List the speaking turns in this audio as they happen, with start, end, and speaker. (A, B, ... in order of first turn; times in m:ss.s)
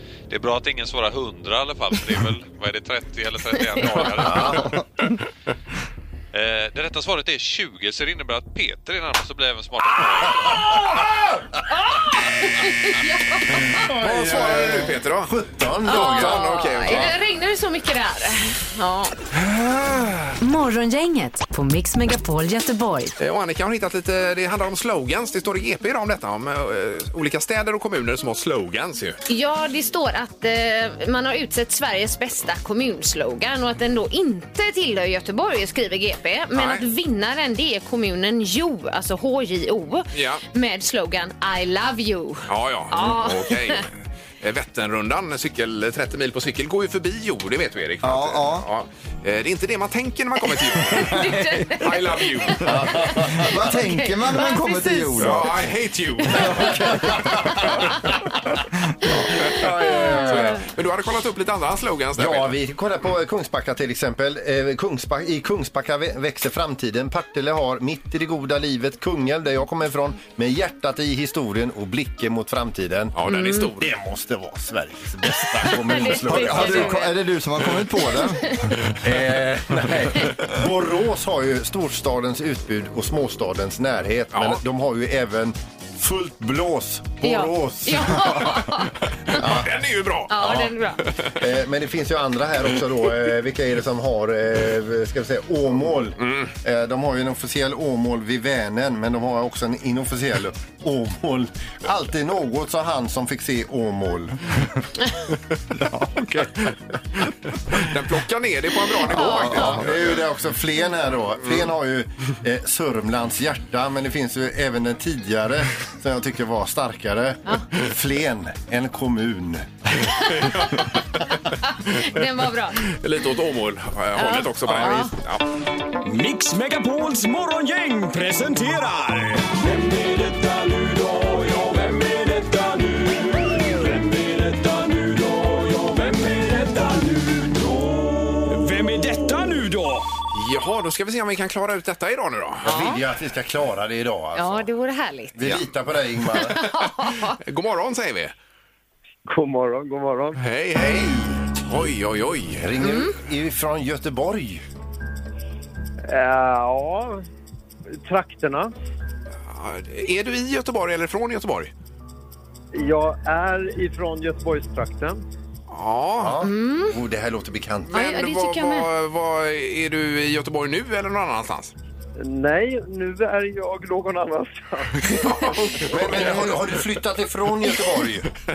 0:00.3-0:04.8 A
0:04.1-0:04.8 B
0:06.3-0:10.7 A
0:11.7-0:13.9 C
0:13.6-0:17.1 B
0:13.9-0:15.3 D
0:15.8-0:19.1 C
0:15.8-0:17.2 D
0:20.4-0:23.1 E
0:23.2-0:29.2 D
0:29.3-0:43.8 C
0:36.5-0:36.8 D
0:40.1-0:40.4 D
0:42.5-0:52.9 D
0:48.0-0:48.7 F
0:50.9-0:55.5 C
0:52.6-0:53.6 B
0:53.4-0:55.6 F
0:55.2-0:57.0 D
0:56.3-0:58.1 B
0:59.5-1:02.5 D
0:59.5-1:00.6 B
0:59.8-1:00.4 C
1:02.2-1:13.2 B
1:13.1-1:13.9 D
1:13.3-1:13.7 C
1:13.8-1:16.9 B
1:15.6-1:17.1 C
1:16.2-1:18.6 F
1:19.0-1:28.7 B
1:24.3-1:24.6 D
1:27.2-1:29.4 C
1:29.3-1:31.3 D
1:29.3-1:29.8 B
1:30.3-1:31.0 C
1:30.3-1:30.7 B
1:31.4-1:44.4 B
1:36.2-1:36.5 D
1:45.9-1:50.2 D
1:49.1-1:49.8 C
1:49.3-1:59.7 B
2:00.1-2:00.6 C
2:00.4-2:01.4 D
2:01.6-2:02.8 C
2:02.8-2:05.4 D
2:04.2-2:05.1 C
2:06.0-2:20.1 G
2:20.3-2:23.0 D
2:22.6-2:24.7 B
2:22.6-2:23.0 C
2:24.3-2:25.6 C
2:25.4-2:26.6 B
2:26.4-2:27.4 C
2:26.6-2:28.3 D
2:29.2-2:30.4 H
2:30.4-2:32.7 D
2:30.8-2:31.2 B
2:32.6-2:34.6 B
2:32.8-2:33.1 C
2:36.1-2:37.2 H
2:38.0-2:38.7 H
2:39.5-2:41.7 D
2:42.7-2:45.2 H
2:45.7-2:46.4 D
2:46.2-2:48.0 B
2:46.4-2:47.0 C
2:47.9-2:51.7 D
2:47.9-2:48.9 C
2:52.2-2:56.3 H
2:55.1-2:56.8 D
2:55.9-2:58.3 B